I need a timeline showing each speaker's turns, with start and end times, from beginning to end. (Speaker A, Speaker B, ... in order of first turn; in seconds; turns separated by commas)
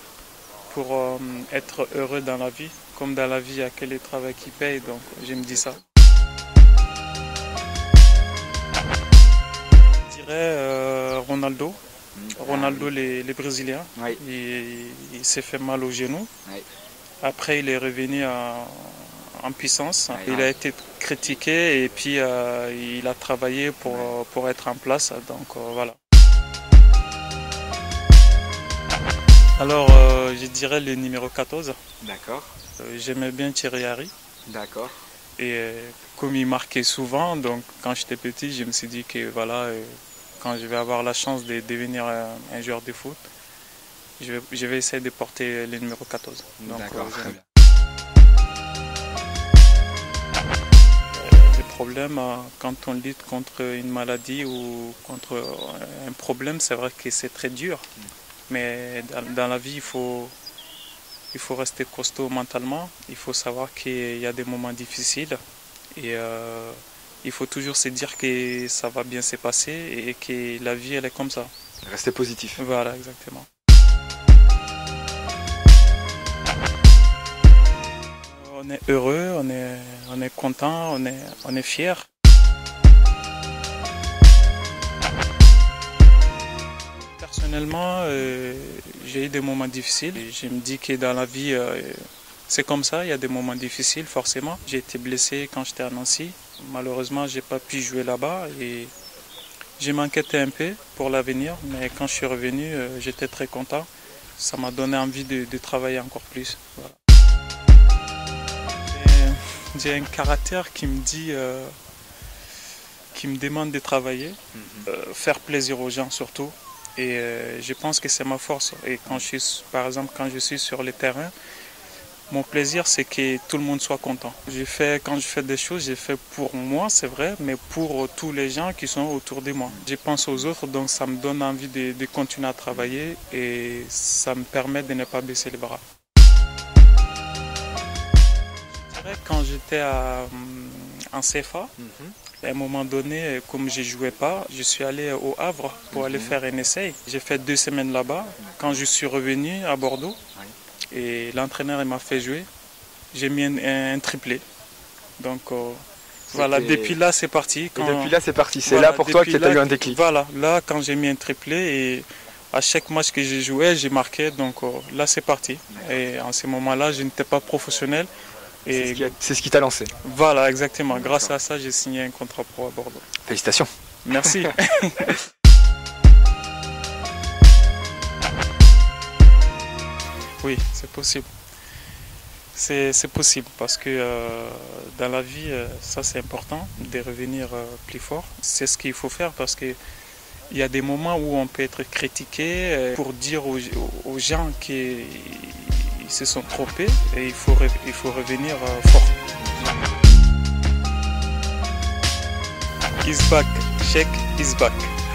Speaker A: 0.7-5.8, Speaker B: 5.4-5.8, Speaker A: 10.1-11.8, Speaker B: 12.2-12.9, Speaker A: 12.3-16.3, Speaker A: 17.2-26.0, Speaker B: 20.1-20.5, Speaker B: 23.8-24.1, Speaker A: 29.6-31.8, Speaker B: 32.0-32.5, Speaker A: 32.8-34.1, Speaker B: 34.5-35.0, Speaker A: 35.4-43.2, Speaker A: 44.2-47.4, Speaker B: 46.6-47.4, Speaker A: 51.1-57.8, Speaker A: 58.5-60.3, Speaker A: 61.3-65.4, Speaker A: 65.9-71.5, Speaker B: 71.8-72.6, Speaker A: 72.6-73.5, Speaker A: 78.2-82.1, Speaker A: 87.0-98.9, Speaker A: 99.8-107.0, Speaker A: 108.8-111.7, Speaker A: 113.1-121.3, Speaker B: 114.5-114.9, Speaker A: 122.3-135.8, Speaker A: 138.6-141.7, Speaker B: 141.8-142.1, Speaker A: 142.4-150.2, Speaker B: 145.9-146.4, Speaker B: 148.4-148.8, Speaker A: 150.9-152.5, Speaker A: 153.1-154.4, Speaker A: 155.2-168.1, Speaker B: 156.3-157.0, Speaker B: 157.7-160.0, Speaker A: 168.6-169.1, Speaker B: 168.7-169.9, Speaker A: 170.0-173.1, Speaker B: 170.9-171.3, Speaker B: 173.2-174.5, Speaker A: 174.0-175.2, Speaker A: 180.4-181.3, Speaker A: 182.5-189.8, Speaker A: 190.5-199.1, Speaker B: 199.4-199.7, Speaker A: 203.0-204.9